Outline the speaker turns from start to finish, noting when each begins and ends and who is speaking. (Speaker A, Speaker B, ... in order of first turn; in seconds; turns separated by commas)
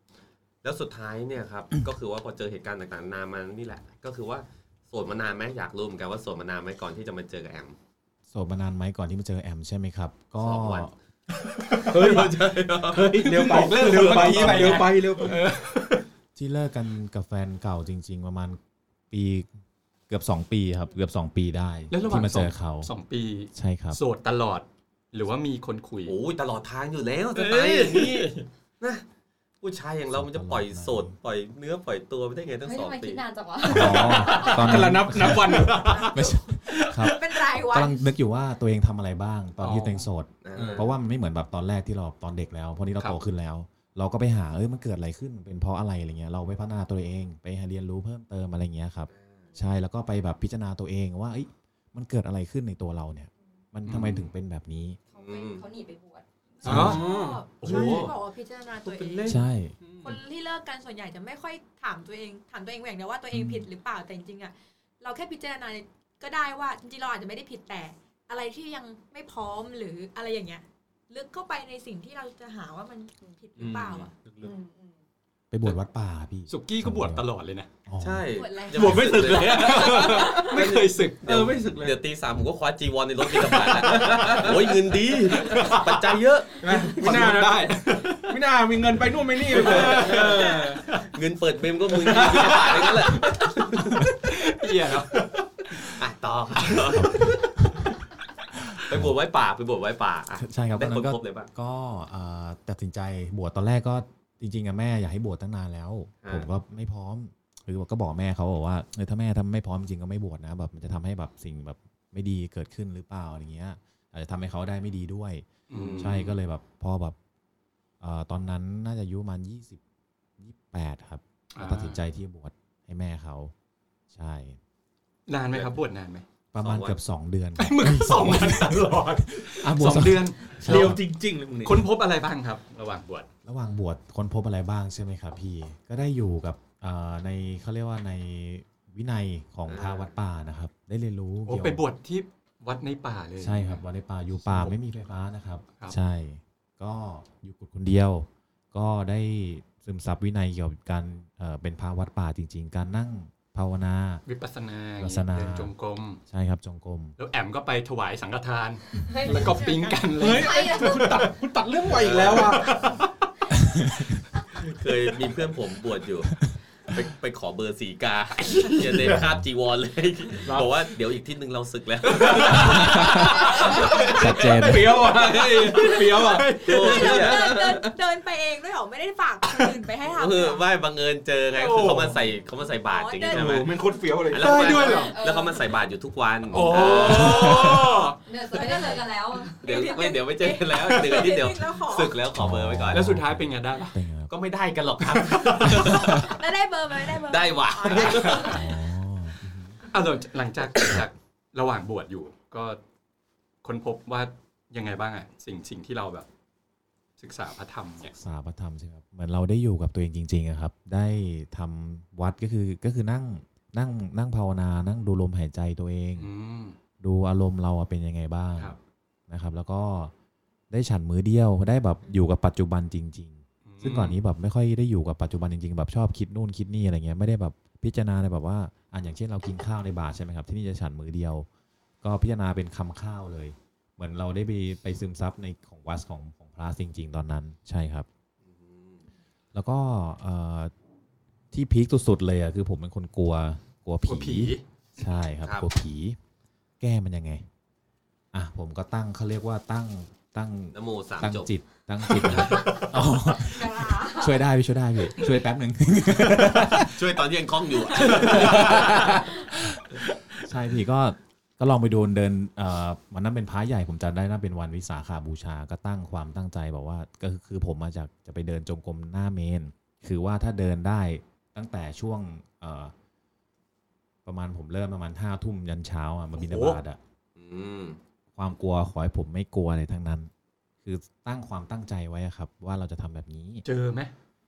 Speaker A: 0.6-7.8, Speaker B: 8.3-10.9, Speaker A: 10.4-10.9, Speaker C: 11.4-12.2, Speaker A: 11.9-13.3, Speaker D: 11.9-15.4, Speaker C: 13.2-16.0, Speaker A: 14.0-14.7, Speaker B: 16.4-18.6, Speaker B: 19.1-19.5, Speaker B: 20.1-22.9, Speaker C: 21.9-26.2, Speaker B: 23.5-24.0, Speaker A: 26.1-29.0, Speaker C: 27.3-28.4, Speaker A: 29.6-33.2, Speaker B: 30.1-31.1, Speaker E: 32.6-34.6, Speaker B: 33.6-55.0, Speaker D: 34.2-36.1, Speaker C: 35.4-37.1, Speaker F: 37.0-38.0, Speaker C: 39.6-40.8, Speaker A: 40.4-40.9, Speaker A: 49.1-49.5, Speaker C: 53.9-54.3, Speaker E: 55.1-56.3, Speaker A: 55.2-55.6, Speaker F: 56.6-59.4, Speaker B: 56.6-57.0, Speaker C: 56.6-57.0, Speaker D: 56.7-57.5, Speaker C: 57.6-58.1, Speaker A: 57.6-58.1, Speaker A: 58.8-59.4, Speaker B: 59.2-59.8, Speaker D: 59.8-60.2, Speaker F: 60.0-74.1, Speaker B: 63.3-63.7, Speaker A: 73.6-74.1, Speaker D: 73.7-74.5, Speaker E: 74.4-74.7, Speaker B: 75.5-77.3, Speaker C: 76.5-77.7, Speaker B: 77.8-78.3, Speaker A: 78.0-87.3, Speaker F: 78.3-79.3, Speaker D: 78.7-80.5, Speaker C: 79.4-81.2, Speaker D: 81.2-82.0, Speaker D: 83.3-84.7, Speaker C: 85.4-85.9, Speaker D: 85.5-85.8, Speaker D: 86.6-90.8, Speaker C: 86.6-88.3, Speaker C: 89.5-91.1, Speaker A: 89.5-90.5, Speaker A: 91.0-94.0, Speaker C: 92.0-96.0, Speaker A: 95.9-97.5, Speaker B: 96.8-97.9, Speaker B: 98.7-99.1, Speaker A: 98.8-101.5, Speaker B: 100.4-115.4, Speaker C: 115.7-116.3, Speaker A: 115.7-116.3, Speaker B: 116.0-117.2, Speaker B: 118.0-119.8, Speaker B: 120.4-123.5, Speaker C: 121.5-122.0, Speaker B: 124.1-124.6, Speaker C: 125.3-126.2, Speaker B: 126.5-131.0, Speaker A: 126.6-127.0, Speaker C: 127.6-131.0, Speaker D: 130.6-131.8, Speaker C: 131.6-133.3, Speaker B: 133.4-141.8, Speaker A: 139.7-140.1, Speaker C: 141.5-143.8, Speaker B: 143.4-154.2, Speaker C: 144.3-144.8, Speaker C: 154.2-156.2, Speaker B: 155.0-155.7, Speaker B: 156.3-157.2, Speaker C: 157.2-161.3, Speaker F: 159.1-161.2, Speaker D: 160.2-163.0, Speaker E: 160.5-161.2, Speaker A: 161.9-162.6, Speaker C: 162.4-163.1, Speaker B: 163.6-164.2, Speaker A: 164.5-166.3, Speaker A: 166.9-174.5, Speaker C: 168.5-168.8, Speaker B: 169.0-169.4, Speaker D: 170.4-170.7, Speaker C: 172.1-177.3, Speaker D: 172.2-172.6, Speaker B: 172.6-173.5, Speaker D: 173.6-176.6, Speaker B: 174.1-175.1, Speaker A: 175.1-176.0, Speaker A: 176.6-177.9, Speaker F: 176.8-180.6, Speaker A: 180.1-183.7, Speaker C: 181.5-182.2, Speaker F: 182.6-184.0, Speaker D: 183.3-184.8, Speaker A: 184.3-187.8, Speaker C: 184.3-185.2, Speaker E: 185.0-185.8, Speaker C: 186.5-188.2, Speaker B: 187.0-187.7, Speaker E: 188.2-189.6, Speaker F: 188.5-192.2, Speaker A: 189.6-193.0, Speaker B: 192.3-194.3, Speaker C: 192.9-194.0, Speaker A: 194.3-196.3, Speaker C: 195.3-195.8, Speaker B: 195.7-196.3, Speaker F: 195.8-198.6, Speaker A: 197.2-198.6, Speaker C: 198.0-198.4, Speaker B: 198.4-199.8, Speaker C: 199.9-202.8, Speaker C: 203.6-206.2, Speaker C: 207.2-208.1, Speaker B: 208.0-216.3, Speaker C: 216.2-216.8, Speaker B: 217.0-218.8, Speaker B: 219.3-220.1, Speaker B: 220.7-231.5, Speaker C: 223.7-224.2, Speaker B: 232.0-238.1, Speaker A: 238.4-239.0, Speaker B: 239.5-240.7, Speaker B: 241.5-246.2, Speaker C: 244.0-244.6, Speaker B: 246.8-247.5, Speaker B: 248.3-257.2, Speaker A: 250.7-251.5, Speaker C: 252.1-252.9, Speaker E: 253.3-254.4, Speaker A: 256.9-259.2, Speaker C: 258.0-259.1, Speaker B: 258.0-259.8, Speaker B: 260.4-272.9, Speaker B: 274.2-277.0, Speaker C: 276.4-276.8, Speaker A: 277.4-278.0, Speaker B: 278.3-280.3, Speaker B: 280.8-283.6, Speaker C: 283.6-284.1